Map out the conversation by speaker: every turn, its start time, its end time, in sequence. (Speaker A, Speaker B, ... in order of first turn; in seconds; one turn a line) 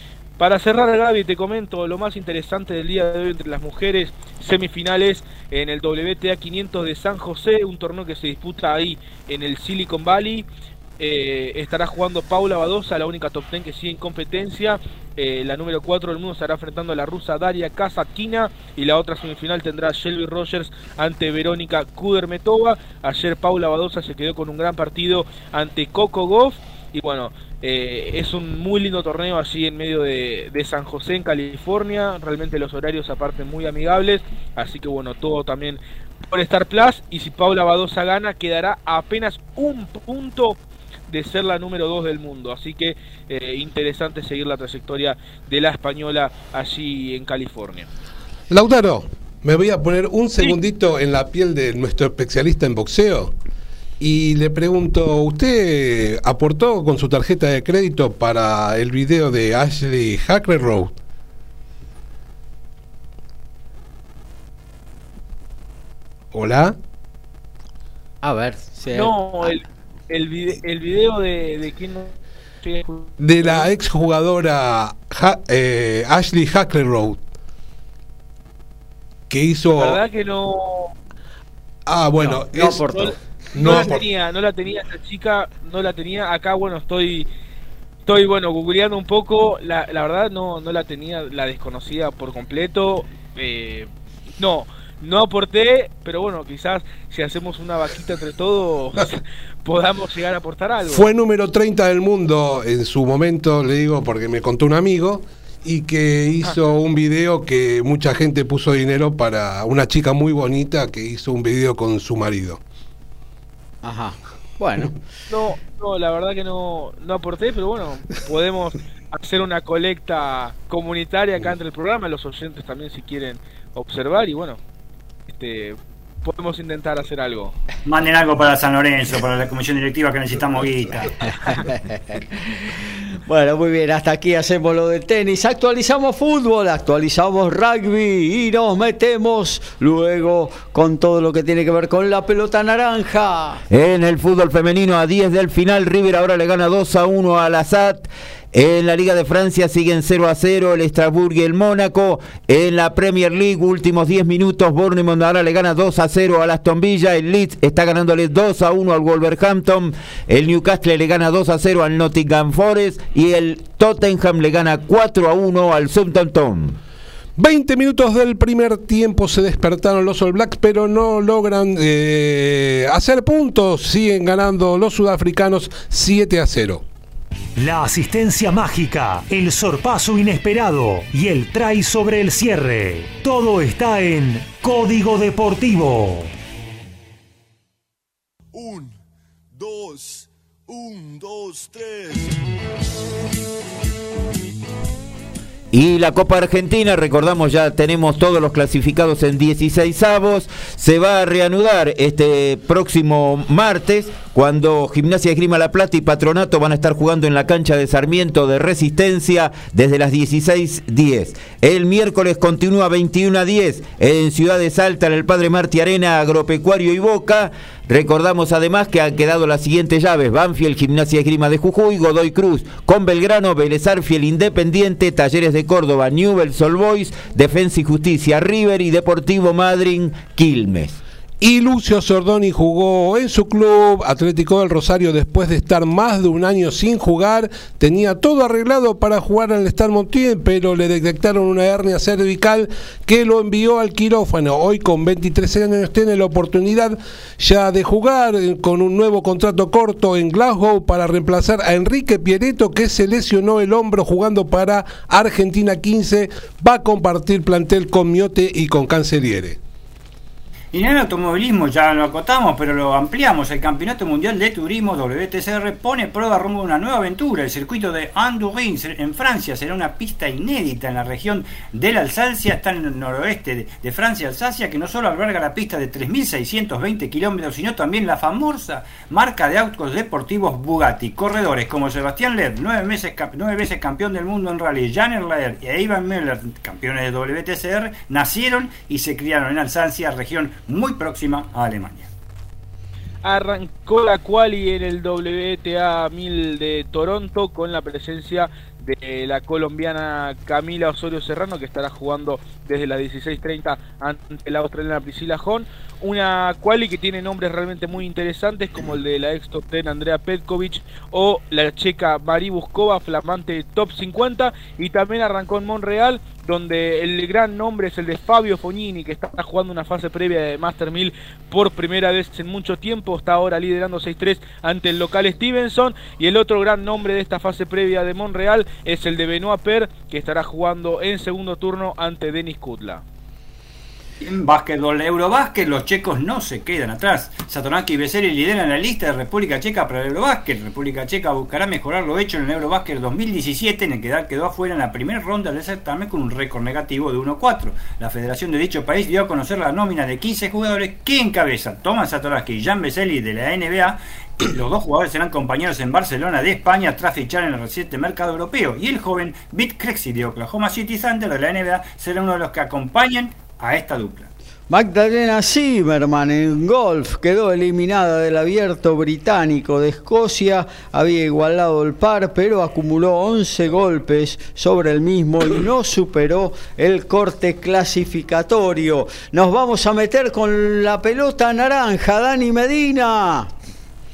Speaker A: 0.4-10.5
Speaker A: 11.0-40.6
Speaker A: 41.1-47.9
Speaker B: 48.5-53.3
Speaker B: 54.0-60.9
Speaker B: 66.3-66.7
Speaker C: 68.2-69.5
Speaker A: 68.9-73.7
Speaker B: 73.2-77.2
Speaker B: 79.3-80.0
Speaker A: 79.8-80.9
Speaker B: 81.9-82.9
Speaker C: 82.5-83.1
Speaker A: 82.9-87.3
Speaker B: 83.5-84.0
Speaker A: 88.0-101.0
Speaker B: 100.8-112.6
Speaker C: 113.8-114.9
Speaker A: 115.3-124.6
Speaker A: 125.3-127.5
Speaker D: 127.8-131.5
Speaker C: 131.5-132.0
Speaker C: 133.2-143.6
Speaker E: 143.7-166.8
Speaker B: 167.4-176.8
Speaker F: 177.6-186.3
Speaker G: 188.5-188.9
Speaker G: 189.5-192.4
Speaker E: 195.7-231.0
Speaker B: 231.4-259.6
Speaker D: 260.7-292.1
Speaker A: 293.2-333.0
Speaker D: 334.2-364.3
Speaker C: 364.7-383.5